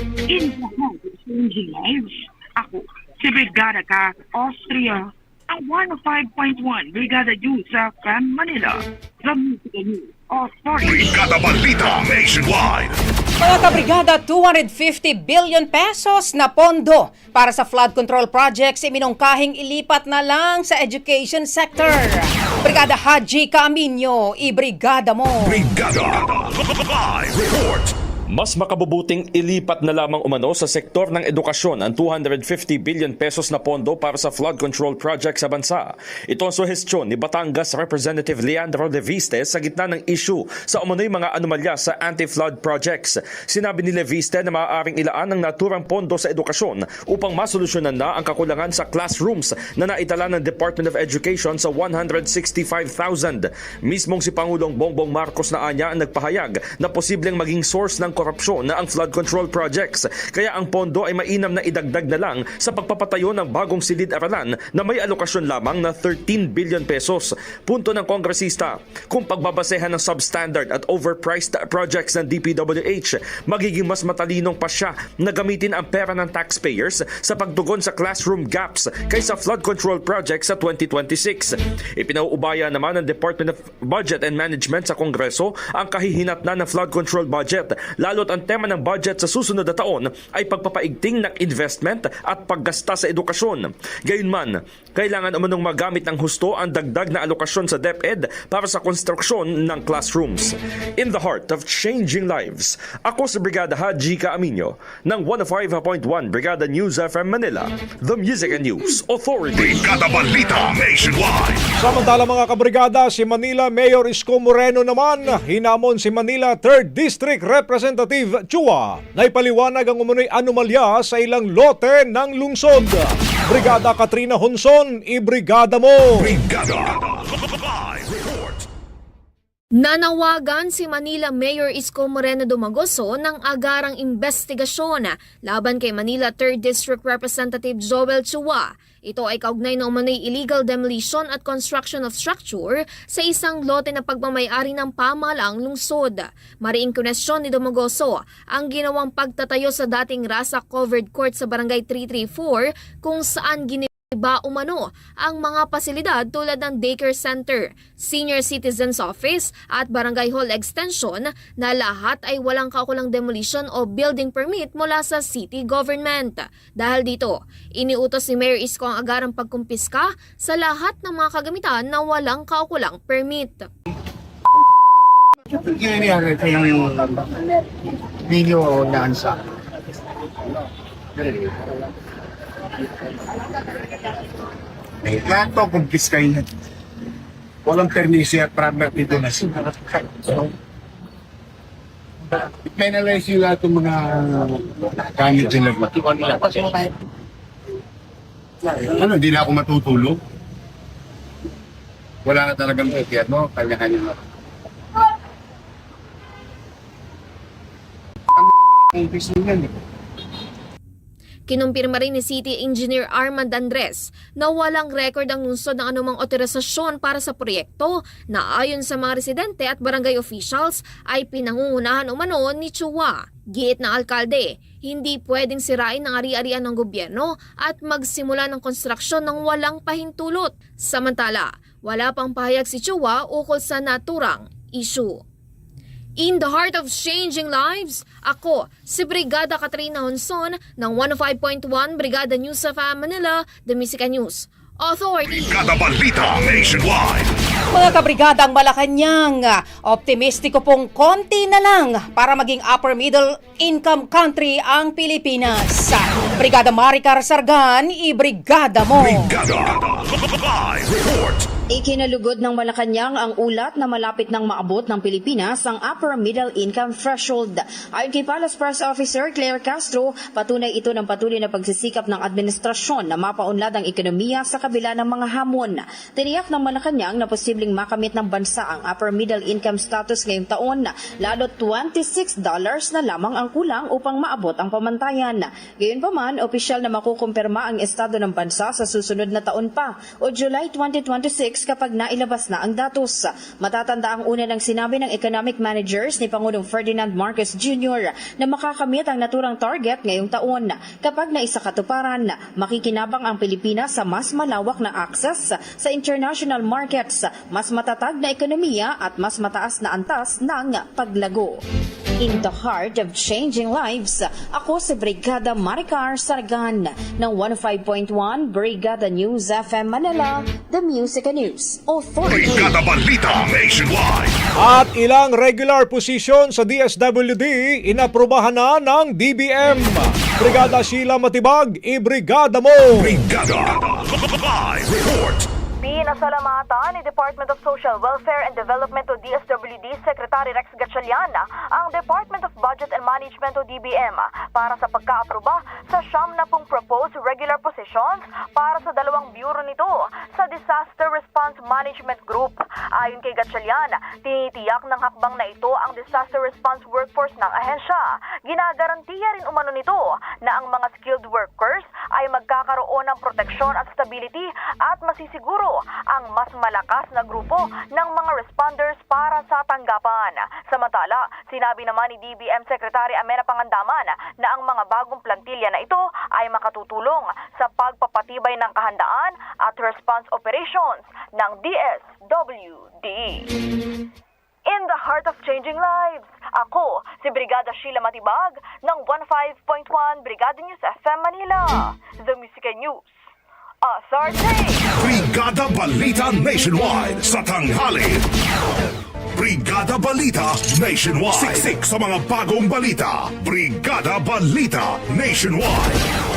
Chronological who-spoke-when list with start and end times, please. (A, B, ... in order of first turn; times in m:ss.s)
0:00.3-0:11.2 A
0:10.8-0:13.0 B
0:13.4-0:25.7 C
0:25.4-0:27.9 B
0:28.3-1:49.9 D
1:49.5-1:51.6 B
1:51.8-2:06.4 E
2:06.2-2:08.7 B
2:09.8-2:53.7 F
2:55.6-2:57.3 G
2:58.3-2:59.4 G
3:05.0-3:06.4 G
3:07.6-3:10.5 G
3:12.7-3:16.9 G
3:18.6-3:20.2 G
3:22.2-3:24.2 G
3:28.3-3:29.7 G
3:31.5-3:55.2 F
3:56.2-4:05.6 F
4:05.3-4:07.3 B
4:07.7-4:19.4 C
4:19.0-4:21.5 B
4:21.7-5:11.6 H
5:12.2-5:22.8 H
5:22.2-5:24.4 B
5:24.6-5:33.2 E
5:33.0-5:35.5 B
5:35.8-6:23.5 I
6:24.7-6:33.1 I
6:33.9-6:34.9 I
6:34.9-6:38.2 B
6:39.4-6:46.0 B